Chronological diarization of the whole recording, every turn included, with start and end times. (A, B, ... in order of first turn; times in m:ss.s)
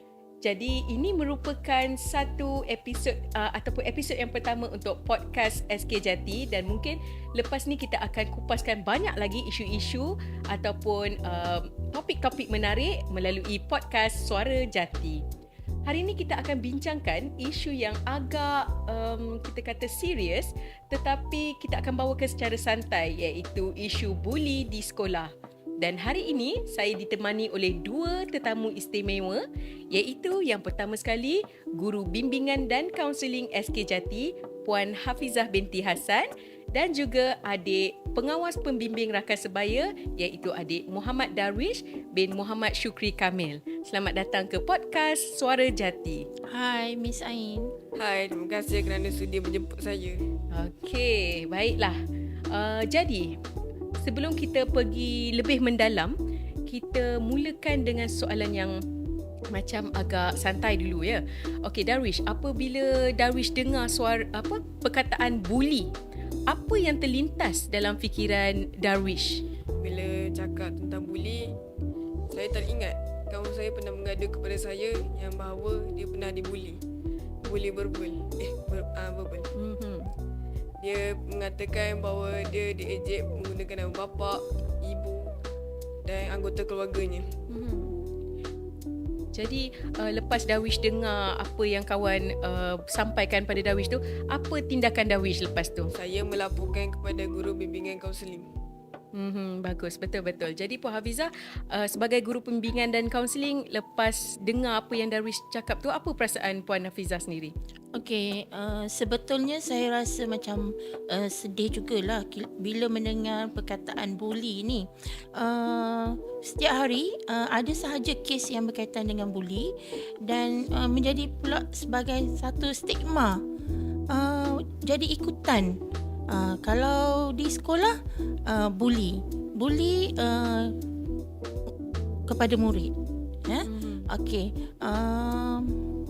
0:00.4-0:15.2 A
0:15.9-0:46.3 A
0:46.5-0:47.7 B
0:48.0-0:50.2 C
0:50.5-0:52.0 A
0:52.5-0:53.3 A
0:54.0-0:56.1 A
0:56.7-0:58.7 A
0:59.5-1:05.9 A
1:06.5-1:09.4 A
1:09.8-1:11.5 C
1:12.3-1:16.8 C
1:17.5-1:19.5 C
1:19.6-1:20.1 A
1:20.8-1:25.3 C
1:26.1-1:27.3 C
1:27.5-1:28.0 A
1:29.4-1:35.9 A
1:36.0-1:38.5 C
1:39.1-1:47.5 A
1:48.0-1:59.7 B
2:00.2-2:03.4 B
2:04.1-2:05.8 B
2:06.3-2:08.0 B
2:08.5-2:10.8 B
2:12.3-2:12.9 B
2:13.5-2:15.8 B
2:13.6-2:14.1 A